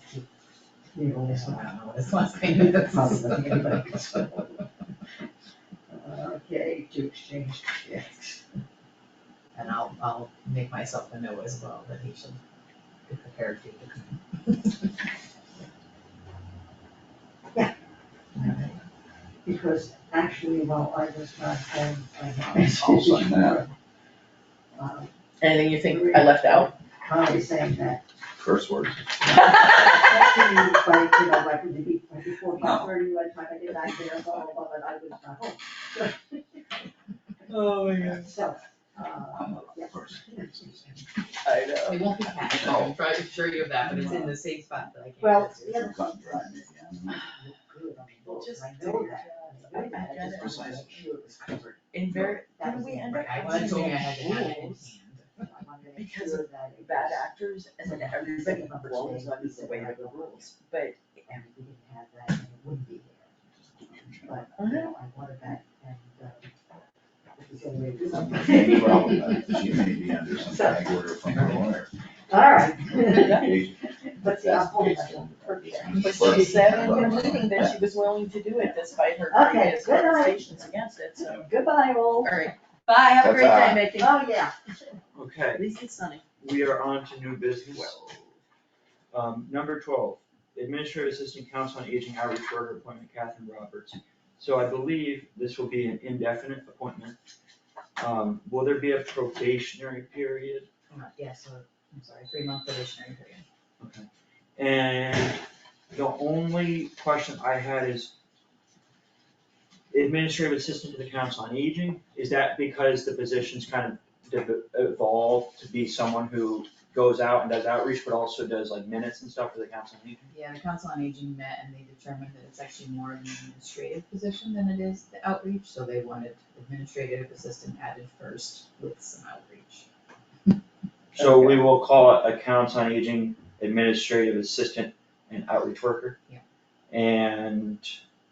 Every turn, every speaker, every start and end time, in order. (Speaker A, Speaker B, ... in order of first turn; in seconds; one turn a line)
Speaker A: 0.9-1.7
Speaker B: 1.2-4.3
Speaker A: 2.6-4.5
Speaker A: 5.9-8.4
Speaker B: 9.6-12.4
Speaker B: 13.1-14.9
Speaker A: 18.3-18.8
Speaker A: 19.4-23.7
Speaker C: 22.5-23.6
Speaker A: 24.8-28.1
Speaker D: 25.4-26.7
Speaker C: 28.4-29.2
Speaker A: 29.2-36.7
Speaker C: 32.6-32.9
Speaker E: 37.5-38.4
Speaker A: 38.0-41.0
Speaker C: 39.3-41.0
Speaker D: 41.4-42.0
Speaker B: 41.9-45.9
Speaker C: 42.5-43.0
Speaker C: 43.9-44.3
Speaker A: 45.2-54.0
Speaker C: 45.8-47.2
Speaker D: 48.1-51.0
Speaker C: 50.1-51.1
Speaker D: 51.9-55.0
Speaker B: 53.1-55.4
Speaker A: 55.4-60.5
Speaker D: 56.0-61.3
Speaker A: 61.3-66.5
Speaker C: 63.8-64.5
Speaker D: 64.6-64.9
Speaker A: 67.3-69.5
Speaker C: 68.1-71.9
Speaker A: 70.3-71.6
Speaker A: 72.3-77.7
Speaker C: 73.0-77.8
Speaker D: 73.1-73.6
Speaker D: 75.9-81.5
Speaker A: 79.3-80.7
Speaker A: 81.3-82.4
Speaker D: 82.2-84.1
Speaker C: 83.2-84.0
Speaker A: 83.9-84.5
Speaker E: 85.1-85.6
Speaker D: 85.5-86.2
Speaker E: 86.4-88.0
Speaker C: 87.8-88.3
Speaker E: 89.1-97.2
Speaker E: 98.0-100.7
Speaker B: 100.9-103.5
Speaker E: 103.8-108.1
Speaker E: 109.9-120.3
Speaker B: 120.3-129.9
Speaker E: 131.1-136.2
Speaker D: 131.2-131.6
Speaker E: 136.9-138.0